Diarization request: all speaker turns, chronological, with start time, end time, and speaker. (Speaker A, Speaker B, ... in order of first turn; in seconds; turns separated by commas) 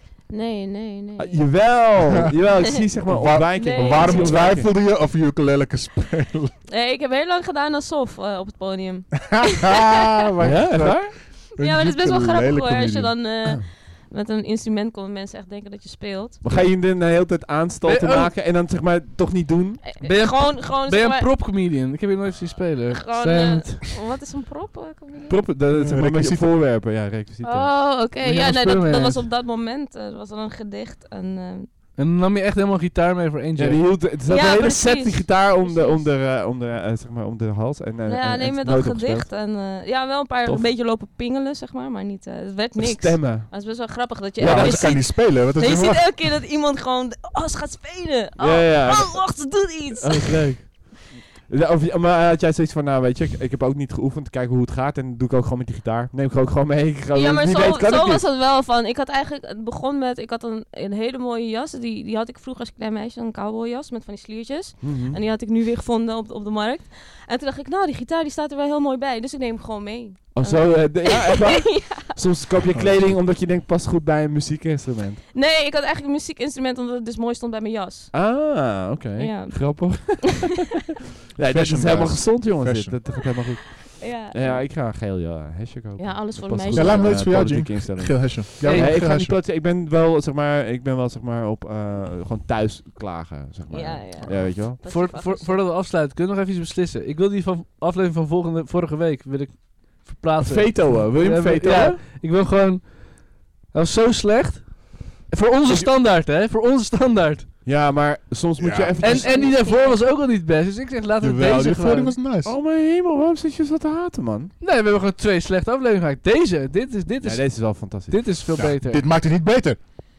Speaker A: 0.3-1.8, Speaker B: 1.2-4.7, Speaker C: 3.1-6.5, Speaker A: 3.6-4.6, Speaker A: 6.7-9.8, Speaker C: 9.3-13.2, Speaker B: 10.4-11.2, Speaker A: 11.6-16.4, Speaker B: 16.4-19.8, Speaker D: 17.9-18.3, Speaker A: 19.8-21.3, Speaker D: 20.0-23.9, Speaker A: 22.9-25.4, Speaker B: 25.3-27.7, Speaker C: 25.7-26.5, Speaker A: 27.4-31.7, Speaker D: 28.2-29.2, Speaker D: 31.9-33.8, Speaker B: 33.6-39.3, Speaker A: 34.3-36.1, Speaker A: 38.1-50.6, Speaker B: 42.8-43.8, Speaker B: 44.4-44.9, Speaker C: 44.4-46.2, Speaker B: 48.4-58.2, Speaker A: 57.1-72.2, Speaker B: 64.8-65.2, Speaker B: 70.3-75.2, Speaker C: 72.7-73.1, Speaker A: 75.3-78.2, Speaker B: 78.1-80.7, Speaker A: 79.2-80.2, Speaker B: 81.3-94.8, Speaker C: 81.5-83.0, Speaker A: 83.8-84.7, Speaker A: 86.0-87.4, Speaker C: 86.7-89.4, Speaker D: 88.6-89.0, Speaker A: 93.7-95.6, Speaker D: 94.8-107.5, Speaker B: 100.4-102.0, Speaker B: 107.7-109.4, Speaker C: 108.6-109.0, Speaker A: 109.0-110.1, Speaker D: 109.0-112.2, Speaker C: 111.2-112.5, Speaker B: 112.4-114.5, Speaker D: 114.6-119.0, Speaker B: 117.2-118.4, Speaker C: 118.6-119.8